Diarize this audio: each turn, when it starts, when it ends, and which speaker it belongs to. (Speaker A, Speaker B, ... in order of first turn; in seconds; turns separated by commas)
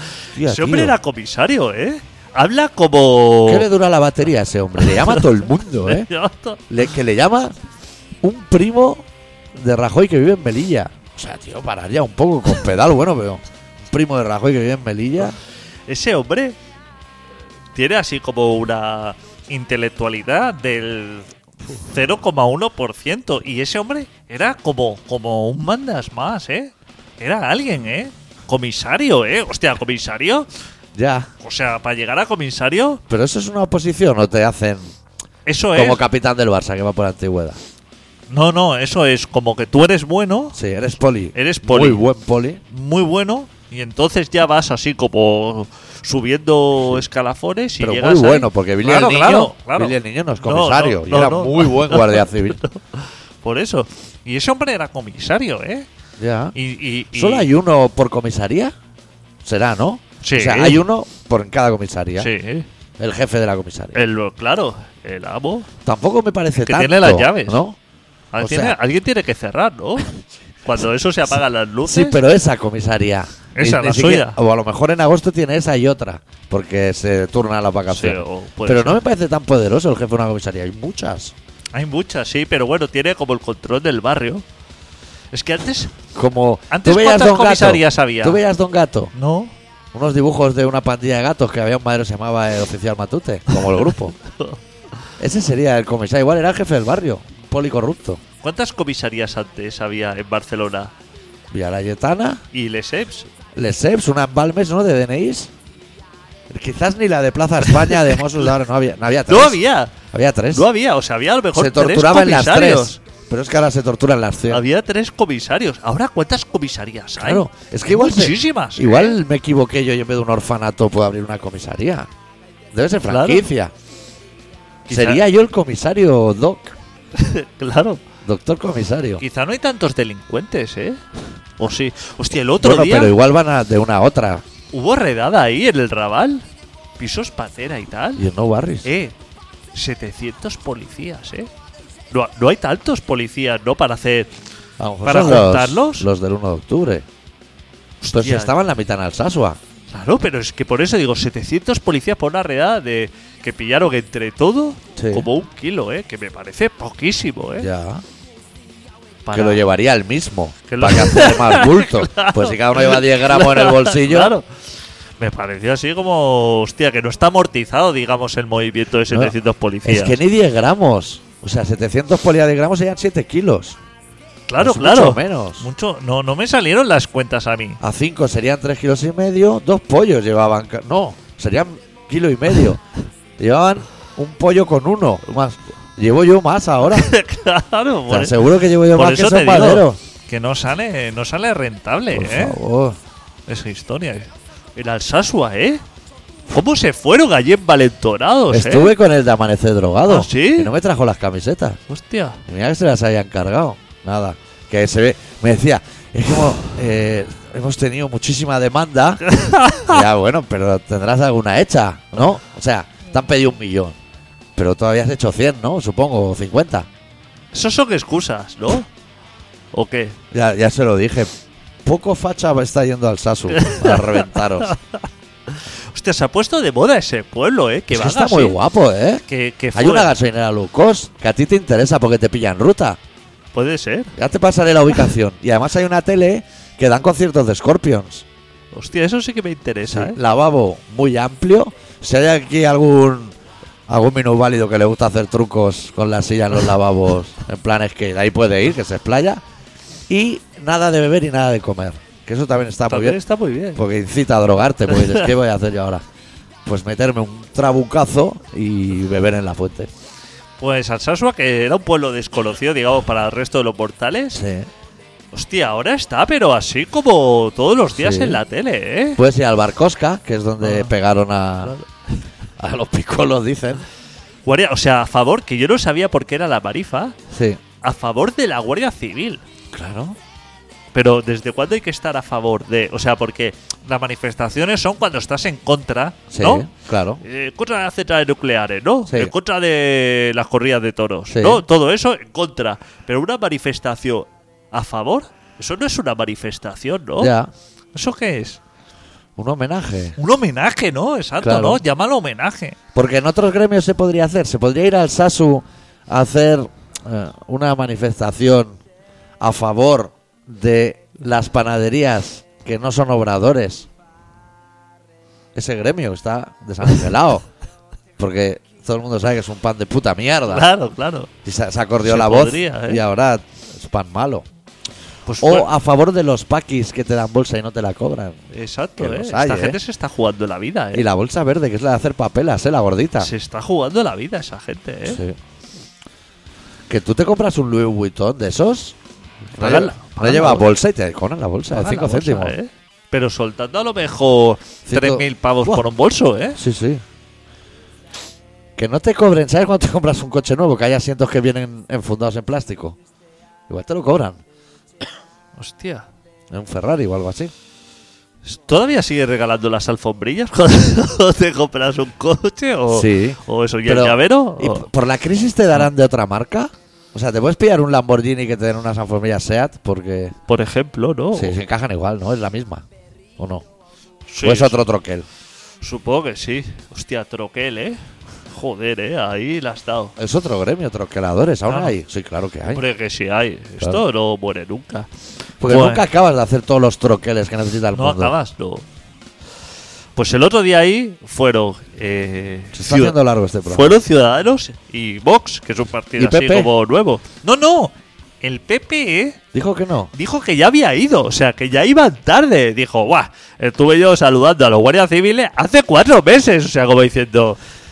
Speaker A: 0.3-0.9, Speaker B: 0.4-3.7, Speaker A: 3.5-6.1, Speaker B: 4.8-6.6, Speaker A: 6.7-7.5, Speaker A: 8.2-15.4, Speaker B: 15.9-16.6, Speaker B: 17.7-21.3, Speaker B: 21.8-30.5, Speaker A: 30.9-31.3, Speaker B: 31.4-33.0, Speaker A: 33.1-34.9, Speaker B: 35.5-36.0, Speaker A: 35.7-37.6, Speaker B: 38.3-40.6, Speaker A: 40.5-42.6, Speaker B: 41.3-42.0, Speaker B: 42.7-55.9, Speaker A: 47.8-52.6, Speaker A: 56.2-56.5, Speaker B: 56.5-57.5, Speaker A: 57.1-58.7, Speaker A: 59.4-62.3, Speaker B: 60.2-60.8, Speaker B: 62.2-62.7, Speaker A: 63.0-64.0, Speaker B: 63.9-65.7, Speaker A: 65.8-67.8, Speaker B: 66.6-67.6, Speaker B: 68.3-72.2, Speaker A: 68.4-68.8, Speaker A: 71.8-81.3, Speaker B: 73.5-74.4, Speaker B: 77.9-79.0, Speaker B: 81.7-84.4, Speaker B: 85.3-86.0, Speaker A: 86.1-89.1, Speaker B: 86.7-88.4, Speaker B: 89.1-89.5, Speaker A: 89.9-94.1, Speaker B: 93.5-94.6, Speaker A: 95.2-98.2, Speaker B: 98.4-100.9, Speaker A: 101.5-102.4, Speaker B: 102.5-103.3, Speaker A: 103.5-105.5, Speaker A: 106.5-109.6, Speaker B: 107.8-108.2, Speaker B: 109.3-110.0, Speaker A: 110.1-110.7, Speaker B: 110.5-113.0, Speaker A: 111.5-114.6, Speaker B: 114.5-119.2, Speaker A: 117.2-122.1, Speaker A: 122.7-123.7, Speaker B: 123.1-123.5, Speaker B: 124.9-125.2, Speaker A: 124.9-126.8, Speaker B: 127.2-128.0, Speaker A: 128.2-129.2, Speaker B: 129.2-131.0, Speaker B: 131.6-133.1, Speaker A: 132.6-134.4, Speaker B: 134.7-136.4, Speaker B: 137.0-138.3, Speaker A: 138.2-138.9, Speaker B: 138.8-139.1, Speaker B: 139.7-141.5, Speaker B: 142.1-144.3, Speaker A: 144.8-147.0, Speaker B: 145.0-146.1, Speaker B: 148.0-148.6, Speaker A: 148.1-149.6, Speaker B: 149.9-157.7, Speaker A: 154.9-155.3, Speaker A: 157.6-158.0, Speaker B: 159.2-159.6, Speaker A: 159.3-164.3, Speaker B: 160.7-164.5, Speaker B: 165.2-170.2, Speaker A: 169.8-173.8, Speaker B: 174.5-177.8, Speaker A: 174.6-175.7, Speaker A: 177.8-182.8, Speaker A: 183.4-187.1, Speaker B: 186.9-192.6, Speaker A: 188.1-190.0, Speaker A: 192.1-193.0, Speaker B: 193.5-195.8, Speaker B: 196.5-198.9, Speaker A: 198.5-201.8, Speaker B: 200.1-200.7, Speaker B: 201.9-202.4, Speaker A: 202.4-209.2, Speaker B: 209.3-210.0, Speaker A: 209.8-214.0, Speaker A: 214.6-216.9, Speaker B: 217.5-218.9, Speaker B: 219.7-220.2, Speaker A: 220.3-221.3, Speaker A: 221.8-224.7, Speaker B: 223.5-225.0, Speaker B: 225.5-228.6, Speaker A: 227.9-233.0, Speaker B: 229.3-230.1, Speaker B: 233.5-234.1, Speaker A: 234.2-238.2, Speaker B: 238.7-240.2, Speaker A: 239.9-243.3, Speaker A: 243.9-249.4, Speaker A: 250.1-253.2, Speaker B: 252.9-253.8, Speaker A: 253.7-256.0, Speaker A: 256.6-259.9, Speaker B: 260.6-264.4, Speaker A: 264.3-264.7, Speaker B: 265.3-269.2, Speaker A: 267.9-268.4, Speaker A: 269.1-271.7, Speaker B: 270.6-270.9, Speaker B: 271.6-272.1, Speaker A: 272.6-273.8, Speaker B: 274.4-277.1, Speaker A: 277.3-277.6, Speaker B: 277.8-279.4, Speaker A: 279.7-280.2, Speaker B: 280.9-286.7, Speaker A: 286.3-287.2, Speaker B: 287.2-297.3, Speaker A: 289.1-289.3, Speaker A: 291.3-291.6, Speaker A: 297.2-297.5, Speaker B: 297.9-298.6, Speaker A: 299.4-300.1, Speaker B: 300.2-302.8, Speaker A: 301.4-301.8, Speaker A: 302.9-308.8, Speaker A: 309.4-313.9, Speaker A: 315.5-317.4, Speaker A: 318.2-320.7, Speaker B: 320.5-321.3, Speaker A: 321.4-324.4, Speaker B: 322.0-323.0, Speaker B: 325.2-325.7, Speaker A: 325.4-328.4, Speaker B: 328.5-331.1, Speaker A: 329.0-329.8, Speaker A: 330.9-333.3, Speaker B: 333.2-335.2, Speaker A: 335.1-335.4, Speaker A: 336.9-338.9, Speaker A: 339.5-342.5, Speaker B: 339.6-340.7, Speaker B: 341.7-346.6, Speaker A: 344.9-345.8, Speaker A: 346.6-347.0, Speaker A: 348.8-353.0, Speaker A: 353.7-354.4, Speaker B: 355.6-356.1, Speaker A: 356.5-357.5, Speaker B: 358.4-364.9, Speaker A: 362.9-370.3, Speaker B: 370.5-371.6, Speaker A: 371.3-372.8, Speaker A: 373.4-373.6, Speaker B: 374.3-374.8, Speaker A: 374.4-375.2, Speaker B: 375.8-380.1, Speaker A: 380.2-382.8, Speaker B: 381.7-381.9, Speaker B: 382.7-385.1, Speaker A: 385.6-388.3, Speaker B: 385.6-386.1, Speaker B: 387.9-388.8, Speaker B: 390.1-399.4, Speaker A: 392.7-393.9, Speaker A: 396.2-396.7, Speaker A: 399.5-400.1, Speaker B: 400.1-407.6